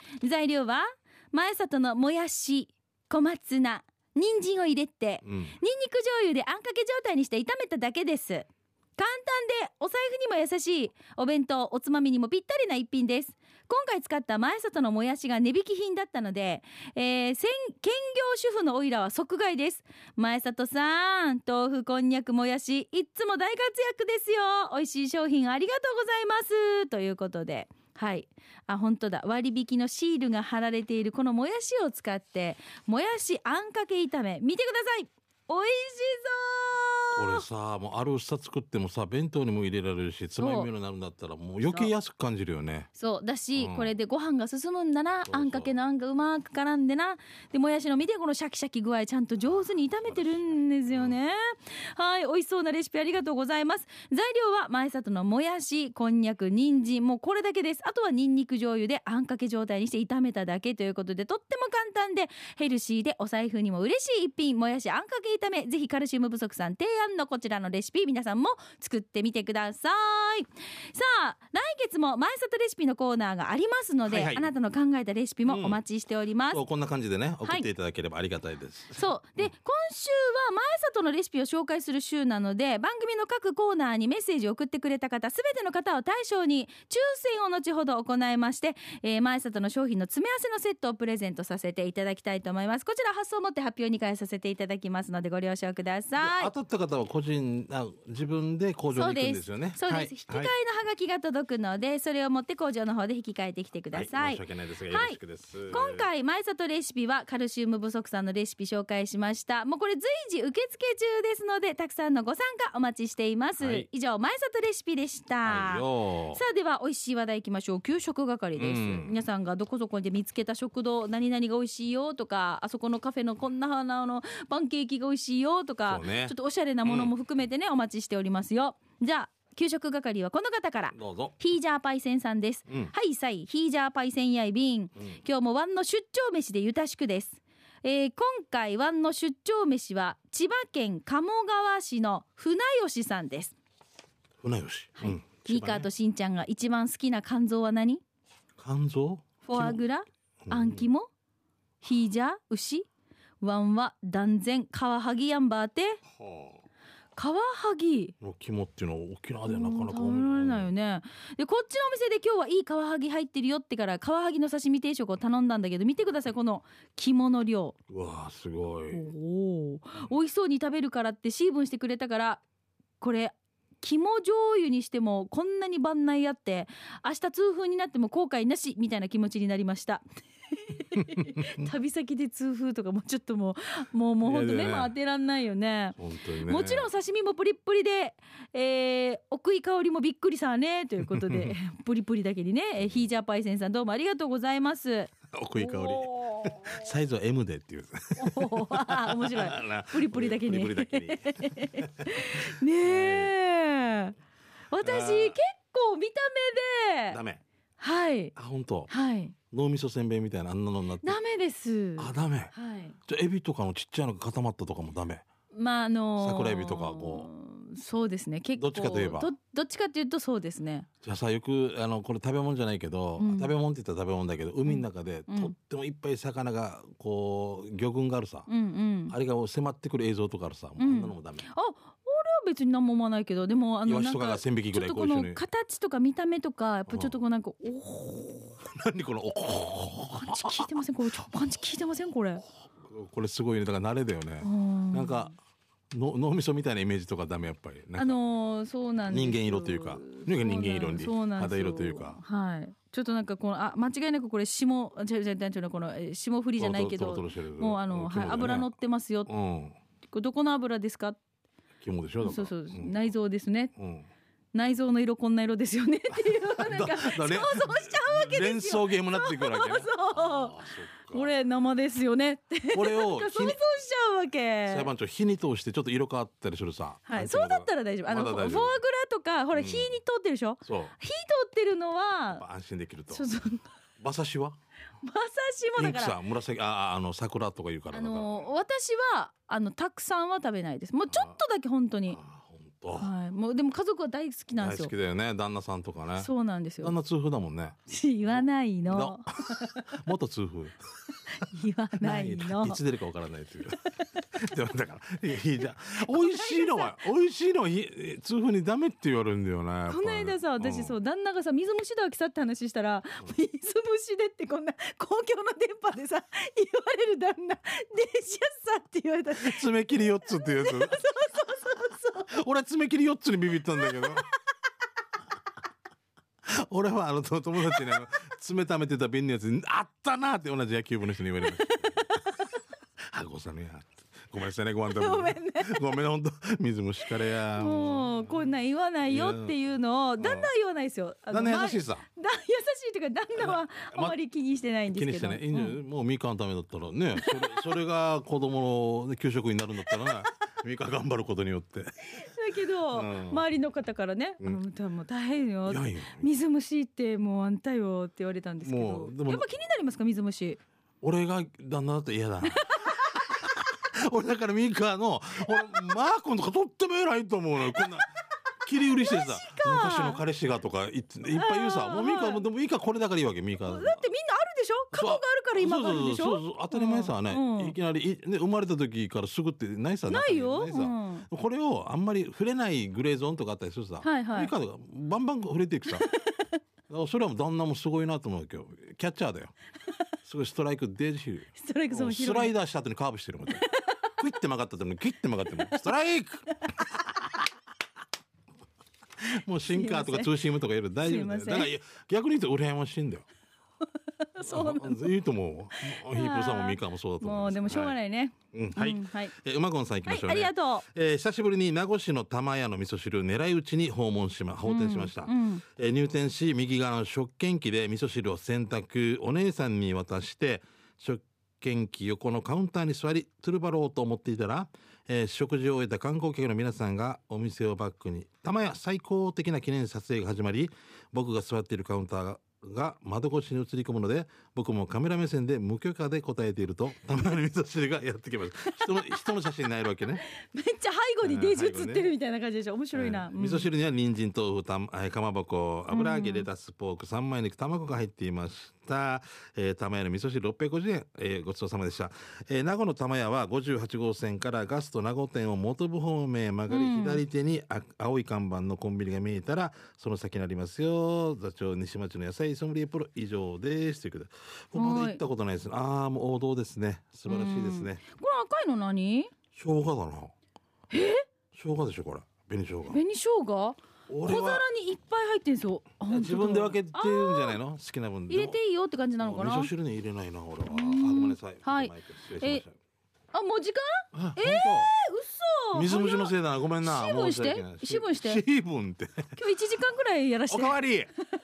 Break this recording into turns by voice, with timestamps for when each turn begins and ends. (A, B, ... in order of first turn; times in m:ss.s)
0:00.2-0:37.5 A
0:05.2-0:05.6 B
0:37.1-0:42.9 B
0:40.4-0:40.7 A
0:43.0-1:16.6 A
0:43.6-0:43.9 B
0:45.3-0:45.7 B
0:49.5-0:51.2 B
1:14.0-1:14.5 B
1:15.5-1:15.8 B
1:16.5-1:19.0 B
1:18.9-1:36.5 A
1:36.2-1:40.5 B
1:38.9-2:23.5 A
1:43.9-1:46.0 B
1:53.6-1:53.9 B
1:55.4-1:56.4 B
1:58.6-1:59.1 B
2:05.9-2:07.1 B
2:10.9-2:11.3 B
2:24.4-2:25.9 B
2:25.0-2:28.0 A
2:28.6-2:29.8 B
2:29.4-2:31.1 A
2:30.4-2:30.8 B
2:31.8-2:32.8 A
2:33.4-2:36.0 A
2:36.2-2:36.6 B
2:37.2-2:38.1 A
2:38.2-2:40.7 B
2:39.5-2:47.8 A
2:47.9-2:49.0 B
2:48.9-2:52.4 A
2:53.0-3:16.5 A
3:01.0-3:01.7 B
3:04.2-3:04.9 B
3:06.0-3:06.9 B
3:11.0-3:11.6 B
3:15.3-3:23.3 B
3:18.2-3:24.2 A
3:24.7-3:27.2 A
3:24.8-3:25.4 B
3:27.1-3:27.4 B
3:27.8-3:28.3 A
3:28.3-3:28.9 B
3:28.9-3:29.3 A
3:29.5-3:31.2 B
3:31.0-3:33.0 A
3:32.0-3:32.5 B
3:33.0-3:35.2 B
3:35.5-3:40.9 A
3:36.2-3:37.3 B
3:38.6-3:39.3 B
3:41.0-3:48.5 B
3:43.2-3:43.5 A
3:44.7-3:45.5 A
3:48.5-3:49.2 A
3:49.1-3:51.4 B
3:50.8-3:58.6 A
3:53.8-3:55.4 B
3:56.9-3:57.1 B
3:58.6-4:00.7 B
4:00.2-4:02.4 A
4:02.8-4:05.3 B
4:04.4-4:05.3 A
4:05.9-4:08.2 B
4:08.0-4:19.3 A
4:09.1-4:12.2 B
4:16.6-4:18.7 B
4:19.2-4:19.8 B
4:20.1-4:21.2 A
4:21.8-4:22.9 B
4:22.2-4:23.7 A
4:23.8-4:24.1 B
4:24.5-4:30.6 A
4:26.1-4:31.3 B
4:31.1-4:34.9 A
4:32.7-4:33.6 B
4:34.7-4:38.8 B
4:37.1-4:42.4 A
4:39.5-4:40.0 B
4:40.6-4:40.9 B
4:42.3-4:43.2 B
4:43.1-4:43.6 A
4:44.0-4:44.6 B
4:45.0-4:46.2 A
4:45.8-4:48.4 B
4:47.9-4:52.2 A
4:52.1-4:53.1 B
4:53.0-4:54.9 A
4:54.6-4:56.3 B
4:56.2-4:56.9 A
4:56.8-4:57.8 B
4:57.9-4:59.8 A
4:58.3-5:00.8 B
5:01.4-5:02.8 A
5:02.0-5:10.9 B
5:06.0-5:07.0 A
5:09.9-5:22.3 A
5:19.4-5:21.0 B
5:22.3-5:24.2 B
5:23.8-5:24.2 A
5:26.4-5:32.0 B
5:31.4-5:32.2 A
5:33.1-5:38.1 B
5:34.9-5:35.9 A
5:37.5-5:45.8 A
5:39.1-5:39.5 B
5:40.2-5:40.5 B
5:41.3-5:42.0 B
5:43.4-5:44.2 B
5:44.9-5:51.9 B
5:47.2-5:47.6 A
5:49.9-5:50.2 A
5:52.1-6:00.6 A
5:52.9-5:53.4 B
5:55.6-5:56.3 B
5:58.6-5:59.5 B
6:01.0-6:08.0 B
6:02.5-6:03.2 A
6:07.8-6:08.0 A
6:08.6-6:14.0 B
6:08.8-6:10.2 A
6:11.3-6:12.4 A
6:13.6-6:17.7 A
6:14.9-6:26.1 B
6:20.1-6:21.3 A
6:24.0-6:24.5 A
6:26.0-6:26.4 A
6:26.9-6:29.5 B
6:30.2-6:33.7 B
6:31.6-6:32.5 A
6:33.5-6:34.1 A
6:34.2-6:37.3 B
6:35.6-6:35.8 A
6:39.2-6:43.2 B
6:39.7-6:40.3 A
6:41.0-6:41.7 A
6:44.2-6:45.1 A
6:44.4-6:47.9 B
6:45.8-6:49.3 A
6:48.5-7:20.2 B
6:50.1-6:50.8 A
6:54.6-6:55.6 A
7:20.2-7:23.7 A
7:21.2-7:22.1 B
7:22.9-7:48.0 B
7:25.9-7:26.5 A
7:36.7-7:37.2 A
7:44.7-7:45.2 A
7:47.3-7:49.3 A
7:49.5-7:50.3 B
7:50.9-7:51.3 A
7:51.5-7:53.0 B
7:52.9-7:57.6 A
7:54.1-7:54.6 B
7:56.1-7:58.6 B
7:58.3-7:59.7 A
7:59.2-8:02.8 B
8:00.7-8:02.6 A
8:03.3-8:08.4 A
8:04.1-8:04.9 B
8:05.7-8:09.2 B
8:09.4-8:10.8 A
8:10.5-8:11.1 B